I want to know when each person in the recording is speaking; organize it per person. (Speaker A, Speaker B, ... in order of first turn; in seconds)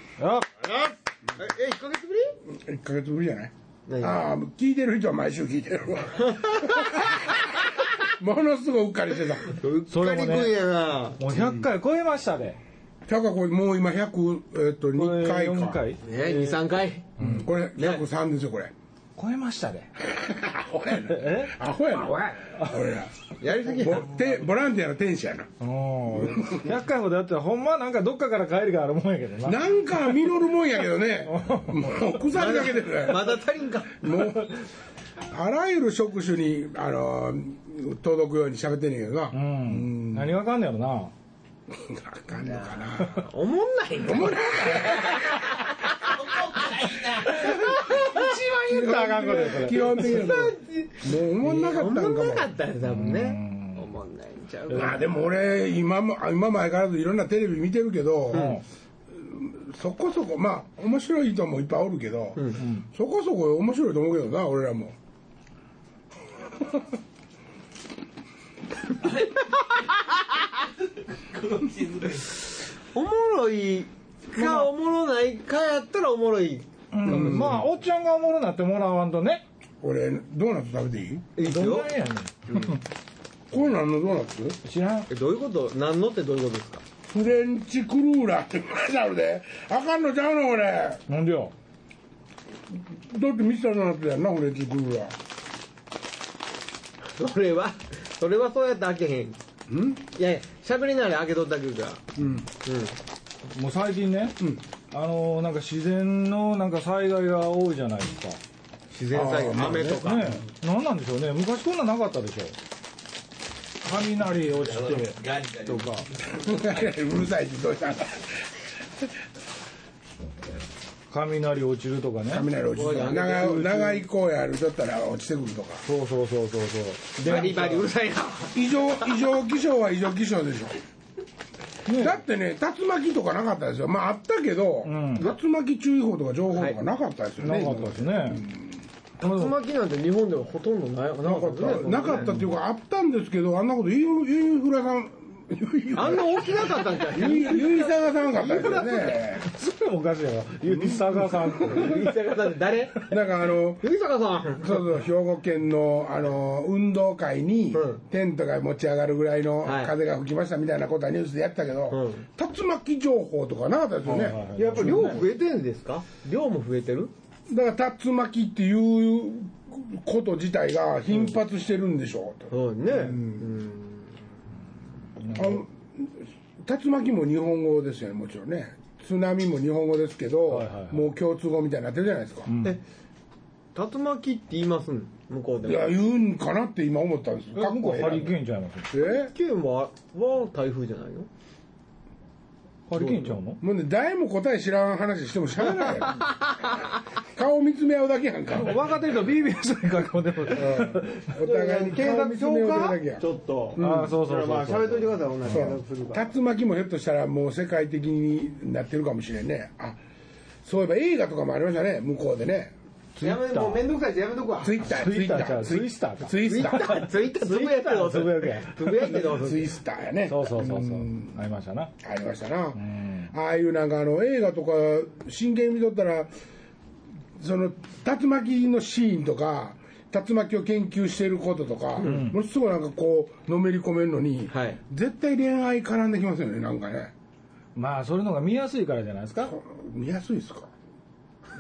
Speaker A: 0.2-0.5, 9.9-10.6, 11.2-12.6, 15.0-16.6, 19.2-19.9, 21.1-21.6, 22.6-22.8, 25.6-30.2, 31.3-31.9, 39.3-41.1, 48.0-50.4, 52.9-53.9, 58.3-58.6, 62.6-62.9, 74.4-74.7, 76.9-79.4, 81.4-82.8, 84.7-85.1, 91.1-91.5, 103.5-104.4, 104.9-108.4, 110.0-112.6, 113.8-115.3, 121.1-122.5, 125.9-127.9, 131.9-132.2, 134.8-135.3, 137.4-138.4, 139.2-139.6, 148.4-152.4, 164.1-165.2, 175.2-175.6, 180.5-181.1, 182.5-182.8, 187.6-188.9, 192.9-193.6, 198.6-201.3, 203.8-205.7, 213.2-213.8, 214.9-219.2, 220.3-221.9, 222.8-223.3, 232.0-232.4, 237.8-239.5
Speaker B: 0.6-2.4, 3.9-4.3, 6.2-7.1, 9.4-11.3, 16.0-17.1, 17.8-18.0, 23.4-24.2, 32.3-34.2, 42.4-55.1, 62.4-62.6, 72.0-72.3, 72.9-77.3, 81.4-81.9, 85.1-86.8, 97.2-99.4, 100.2-103.0, 108.9-110.4, 115.4-116.1, 122.7-124.0, 127.2-128.8, 139.2-142.3, 145.9-148.0, 151.6-153.1, 153.8-154.8, 157.7-158.0, 159.6-159.9, 161.9-162.3, 164.6-167.1, 172.5-174.1, 183.8-185.9, 188.9-191.3, 192.9-193.4, 200.6-206.3, 213.2-214.8, 216.4-219.7, 232.0-232.3, 234.5-234.8
Speaker C: 2.5-7.5, 8.1-9.5, 13.1-15.8, 17.2-18.7, 20.0-23.1, 23.6-25.5, 26.1-26.7, 29.4-34.5, 35.3-40.3, 41.7-43.3, 44.0-45.4, 47.3-52.5, 54.7-58.6, 59.1-64.9, 77.0-77.7, 79.8-81.3, 83.5-84.6, 87.1-91.0, 92.7-95.1, 99.7-100.0, 102.2-102.5, 109.1-110.4, 116.3-119.1, 122.3-125.8, 128.5-130.8, 131.9-138.7, 141.2-146.4, 147.0-149.4, 150.7-151.9, 153.1-153.8, 154.6-165.1, 167.5-173.4, 175.3-182.5, 185.6-188.4, 188.9-189.3, 193.6-196.3, 197.2-199.0, 200.6-203.2, 203.8-204.1, 205.5-210.0, 210.6-212.7, 214.6-217.1, 219.0-221.3, 222.0-226.3, 227.4-237.1, 239.4-240.7